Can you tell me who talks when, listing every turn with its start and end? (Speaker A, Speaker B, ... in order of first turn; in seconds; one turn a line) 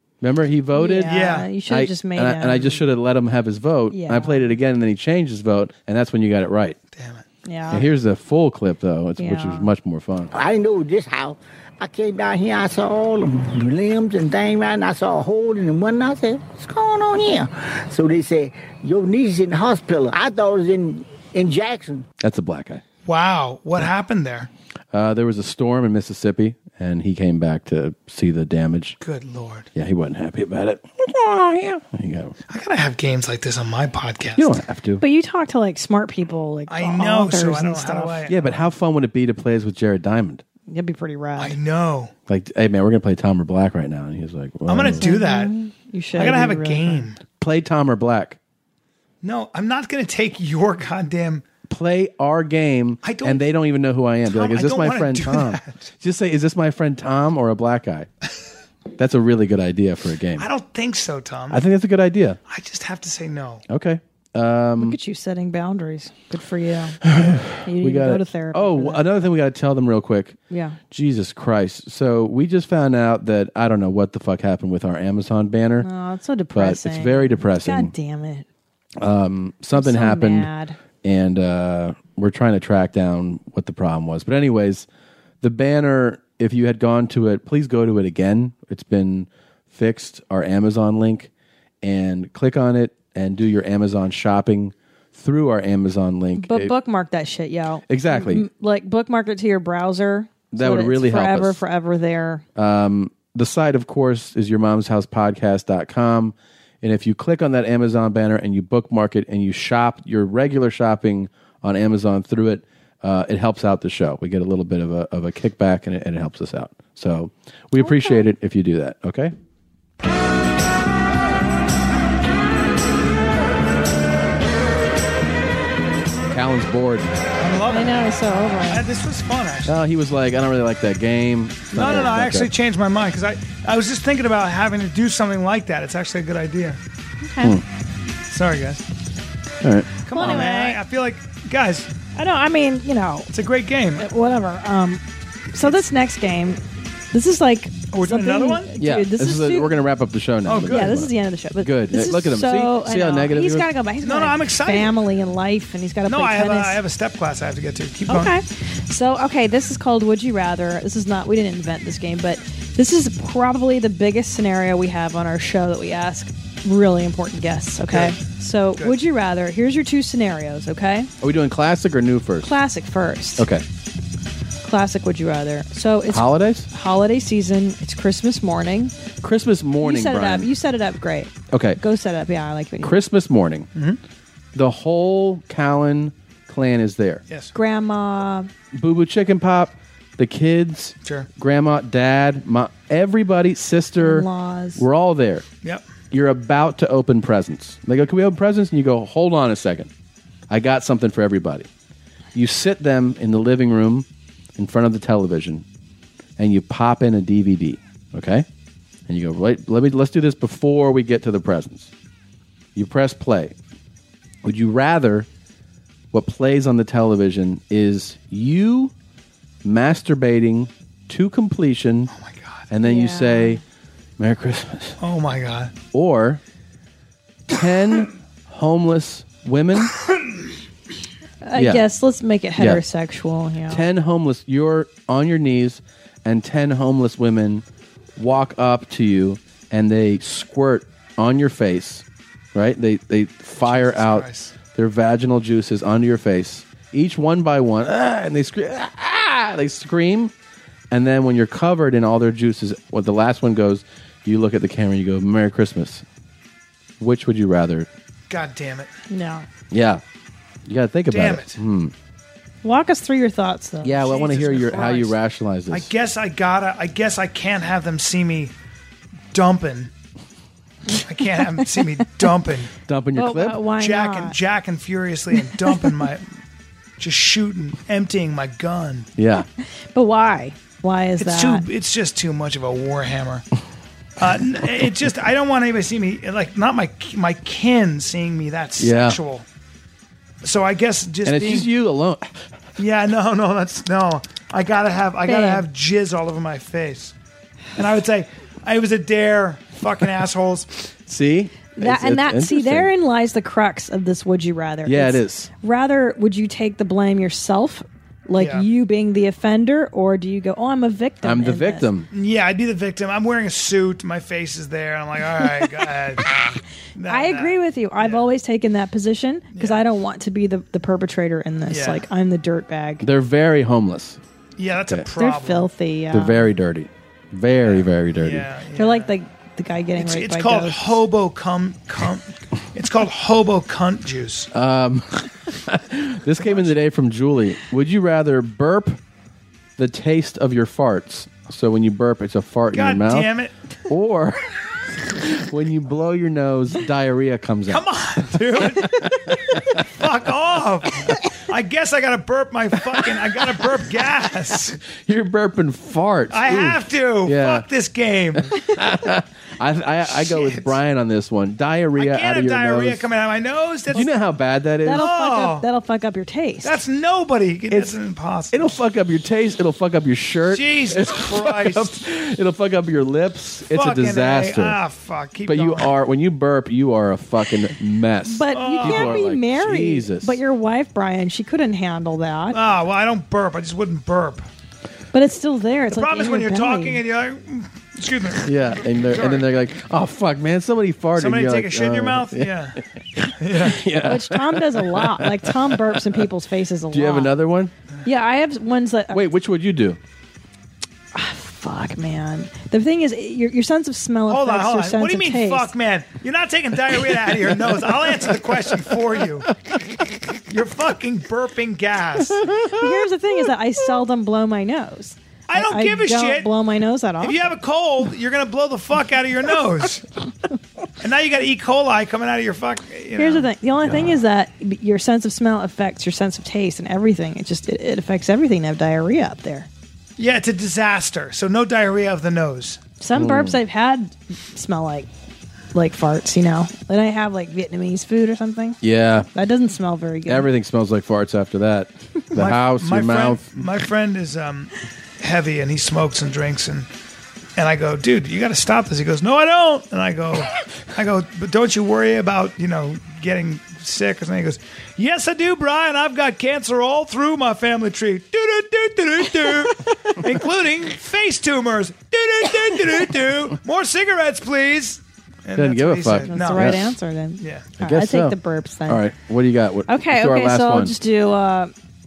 Speaker A: 0.2-6.8
Speaker B: 0.7-2.8
Speaker C: 1.0-1.5
Speaker B: 3.9-4.5
Speaker C: 6.9-7.3
Speaker B: 7.4-7.9
Speaker A: 7.7-10.3
Speaker B: 9.2-9.7
Speaker D: 10.3-22.1
Speaker A: 22.2-22.8
Speaker C: 23.1-24.5
Speaker A: 24.9-29.0
Speaker C: 29.0-29.7
Speaker A: 29.7-32.3
Speaker C: 32.5-34.6
Speaker A: 34.4-35.0
Speaker B: 35.0-38.2
Speaker C: 36.7-38.6
Speaker A: 38.3-40.4
Speaker B: 40.7-41.5
Speaker C: 41.4-42.1
Speaker A: 42.3-45.1
Speaker C: 44.7-45.5
Speaker B: 45.0-47.0
Speaker C: 46.1-47.2
Speaker A: 47.4-48.4
Speaker C: 49.2-51.4
Speaker A: 51.7-58.1
Speaker C: 53.0-53.4
Speaker C: 54.3-55.8
Speaker A: 59.0-60.5
Speaker C: 60.4-61.6
Speaker A: 61.5-62.4
Speaker C: 62.5-63.6
Speaker A: 63.7-65.0
Speaker B: 64.8-67.0
Speaker A: 67.0-70.4
Speaker B: 67.6-69.0
Speaker B: 70.5-70.8
Speaker A: 70.9-75.9
Speaker B: 75.8-78.5
Speaker A: 76.5-77.9
Speaker A: 79.0-80.5
Speaker B: 79.7-80.8
Speaker A: 81.0-84.9
Speaker A: 85.4-91.3
Speaker A: 91.8-96.7
Speaker B: 96.4-102.4
Speaker A: 97.9-98.5
Speaker A: 100.5-101.6
Speaker A: 102.5-119.3
Speaker B: 117.8-118.2
Speaker A: 126.3-127.1
Speaker C: 127.4-128.0
Speaker B: 127.7-128.8
Speaker C: 128.7-129.8
Speaker A: 129.7-132.5
Speaker B: 131.7-132.2
Speaker C: 131.8-136.8
Speaker B: 137.2-137.6
Speaker C: 138.3-138.8
Speaker A: 139.6-140.4
Speaker C: 140.1-141.9
Speaker B: 140.1-140.8
Speaker B: 142.2-143.3
Speaker C: 143.3-144.1
Speaker B: 144.0-146.6
Speaker B: 147.1-149.7
Speaker C: 147.9-148.7
Speaker A: 148.8-153.7
Speaker C: 150.4-151.1
Speaker B: 150.7-156.8
Speaker C: 154.0-154.9
Speaker C: 156.1-158.3
Speaker B: 158.1-171.1
Speaker C: 167.9-168.2
Speaker A: 171.2-172.5
Speaker B: 172.4-173.5
Speaker A: 173.4-173.6
Speaker B: 174.6-178.9
Speaker A: 176.1-176.7
Speaker A: 179.2-180.5
Speaker B: 179.8-183.0
Speaker A: 181.5-181.8
Speaker A: 182.8-183.7
Speaker C: 183.7-184.0
Speaker A: 184.5-187.2
Speaker C: 187.3-187.5
Speaker B: 187.5-188.5
Speaker A: 188.7-195.4
Speaker C: 191.0-191.3
Speaker B: 194.0-194.8
Speaker A: 196.1-199.9
Speaker A: 200.5-201.7
Speaker A: 202.3-205.6
Speaker A: 206.4-208.4
Speaker A: 209.1-211.9
Speaker A: 212.7-213.5
Speaker A: 214.4-215.3
Speaker A: 216.1-218.9
Speaker A: 219.6-222.1
Speaker C: 222.1-222.7
Speaker A: 222.7-223.6
Speaker B: 222.8-223.6
Speaker A: 224.2-225.0
Speaker C: 225.0-225.7
Speaker A: 225.9-226.4
Speaker A: 227.5-229.9
Speaker B: 231.4-233.8
Speaker A: 231.5-231.8
Speaker A: 232.6-232.8
Speaker A: 233.7-237.6
Speaker A: 238.2-250.3
Speaker C: 243.6-244.5
Speaker A: 250.9-256.0
Speaker A: 257.0-257.9
Speaker C: 258.3-258.9
Speaker B: 259.1-259.5
Speaker A: 259.7-260.0
Speaker A: 260.6-261.9
Speaker C: 261.1-261.6
Speaker B: 262.6-265.0
Speaker A: 263.8-265.9
Speaker C: 264.0-265.1
Speaker C: 265.7-268.5
Speaker C: 269.3-269.9
Speaker C: 270.9-272.7
Speaker A: 272.9-273.6
Speaker B: 273.1-274.4
Speaker C: 273.7-276.2
Speaker B: 275.4-275.8
Speaker C: 277.0-279.1
Speaker A: 279.2-279.4
Speaker B: 279.9-281.6
Speaker C: 281.2-283.4
Speaker C: 284.2-289.4
Speaker A: 288.8-289.2
Speaker C: 290.4-291.7
Speaker A: 291.2-292.5
Speaker C: 292.8-297.1
Speaker B: 295.2-295.7
Speaker C: 297.8-300.7
Speaker A: 301.1-302.9
Speaker B: 301.8-311.9
Speaker A: 304.8-305.5
Speaker C: 308.4-308.7
Speaker A: 311.2-312.1
Speaker C: 312.1-316.4
Speaker C: 316.9-318.2
Speaker B: 317.1-323.1
Speaker C: 319.5-319.8
Speaker C: 321.7-322.0
Speaker A: 323.0-324.2
Speaker C: 324.6-325.7
Speaker B: 325.1-326.5
Speaker A: 326.1-328.5
Speaker C: 327.6-329.2
Speaker B: 328.7-331.0
Speaker C: 330.0-334.5
Speaker A: 334.5-339.0
Speaker C: 336.4-336.7
Speaker A: 339.8-343.3
Speaker C: 342.7-343.5
Speaker A: 343.9-348.6
Speaker C: 347.7-354.8
Speaker A: 349.5-349.7
Speaker A: 354.8-357.6
Speaker C: 356.3-358.6
Speaker A: 358.4-363.1
Speaker C: 360.3-360.7
Speaker C: 361.9-364.1
Speaker A: 363.9-365.1
Speaker B: 364.8-366.7
Speaker C: 364.9-365.6
Speaker C: 366.6-368.8
Speaker A: 367.7-368.0
Speaker A: 368.5-374.8
Speaker C: 370.5-371.9
Speaker C: 373.7-375.9
Speaker A: 375.4-380.4
Speaker B: 378.3-382.6
Speaker C: 378.5-379.2
Speaker C: 382.5-384.4
Speaker B: 385.1-387.0
Speaker C: 385.9-389.5
Speaker A: 388.4-396.2
Speaker C: 391.1-393.8
Speaker B: 394.0-397.3
Speaker A: 396.9-397.7
Speaker B: 398.0-399.3
Speaker A: 399.1-400.0
Speaker B: 401.1-405.7
Speaker C: 404.3-409.5
Speaker C: 410.4-412.5
Speaker A: 412.5-413.0
Speaker B: 412.7-417.4
Speaker C: 415.5-416.5
Speaker C: 417.2-420.0
Speaker C: 421.0-423.5
Speaker B: 423.1-429.7
Speaker A: 423.9-424.2
Speaker C: 430.2-432.8
Speaker B: 433.0-435.1
Speaker A: 433.1-433.6
Speaker B: 435.7-438.8
Speaker A: 438.8-439.3
Speaker B: 439.3-440.5
Speaker A: 440.2-443.7
Speaker C: 442.3-446.9
Speaker C: 447.6-467.7
Speaker A: 465.5-466.8
Speaker B: 466.2-469.0
Speaker A: 467.8-471.0
Speaker B: 469.9-471.7